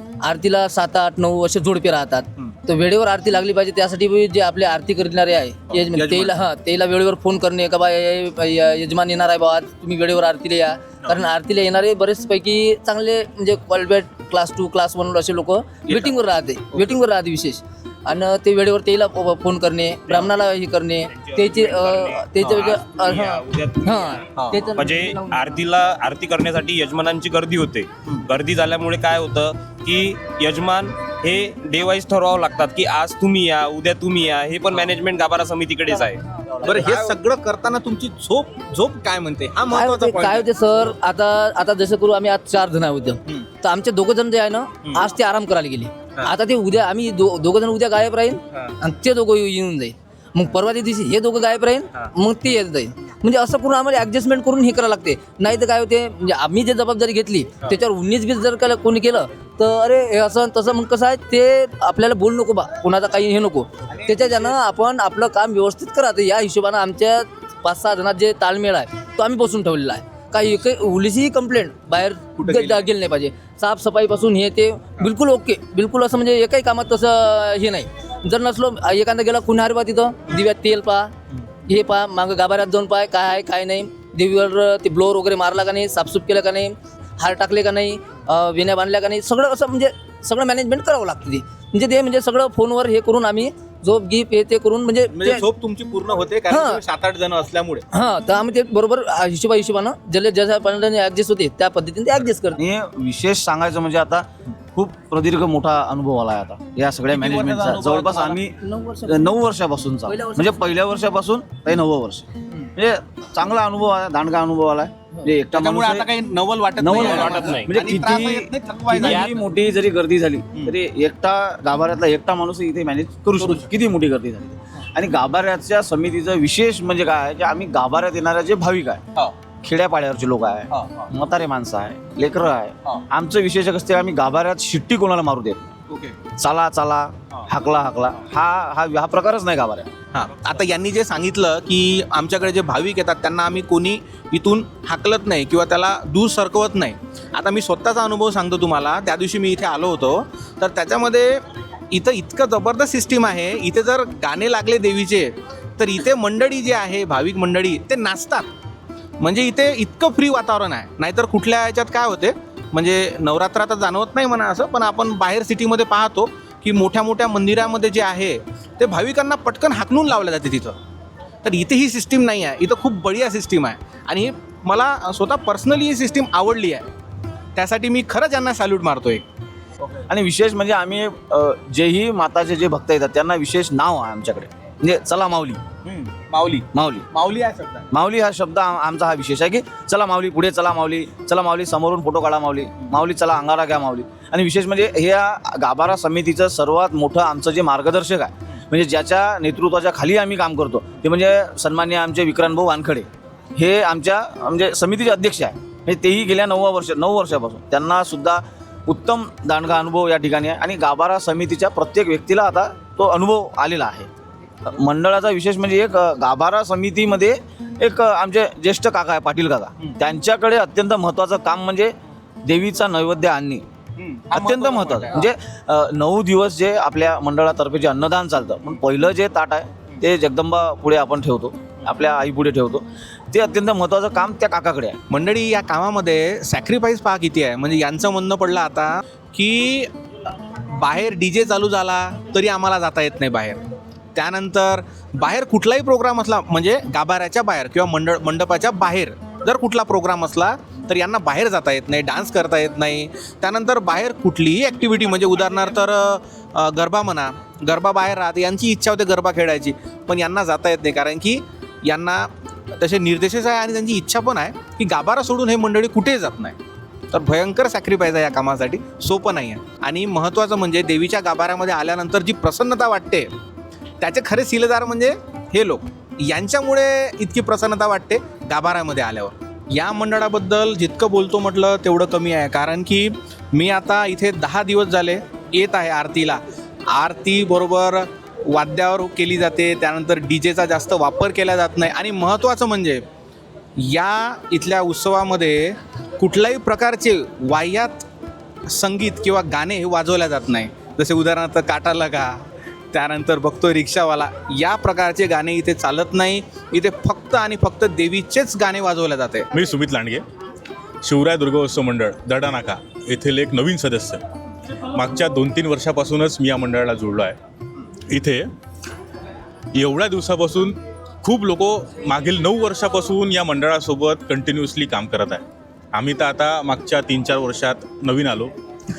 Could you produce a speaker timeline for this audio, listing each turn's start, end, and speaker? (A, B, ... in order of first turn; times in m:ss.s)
0:00.2-0:25.5 A
0:05.7-0:06.4 B
0:21.1-0:36.2 C
0:36.6-0:37.2 D
0:36.7-0:40.5 B
0:39.7-1:21.1 A
1:03.9-1:04.6 B
1:12.4-1:12.9 B
1:21.7-1:35.4 A
1:35.1-1:37.8 B
1:36.5-1:36.8 A
1:37.9-1:42.6 A
1:42.6-1:56.2 D
1:50.1-1:50.6 A
1:55.7-1:58.8 B
1:56.8-2:09.0 D
1:56.9-1:57.7 C
1:59.0-1:59.4 C
2:09.6-2:15.7 D
2:16.3-2:19.9 D
2:20.1-2:38.5 B
2:39.2-2:50.8 B
2:51.4-2:56.9 B
2:57.6-2:59.2 B
3:00.1-3:05.7 D
3:05.9-3:07.8 B
3:06.7-3:07.1 D
3:07.9-3:34.1 D
3:34.6-3:43.7 D
3:44.0-3:45.0 B
3:44.3-3:55.0 D
3:55.1-3:59.9 B
4:00.8-4:03.6 B
4:04.1-4:26.6 B
4:27.1-4:33.3 B
4:34.0-4:53.0 B
4:53.8-4:58.0 B
4:58.7-5:09.5 B
5:09.5-5:10.2 E
5:11.0-5:14.2 E
5:14.9-5:17.3 E
5:18.1-5:18.4 E
5:19.7-5:25.4 E
5:25.9-5:28.5 E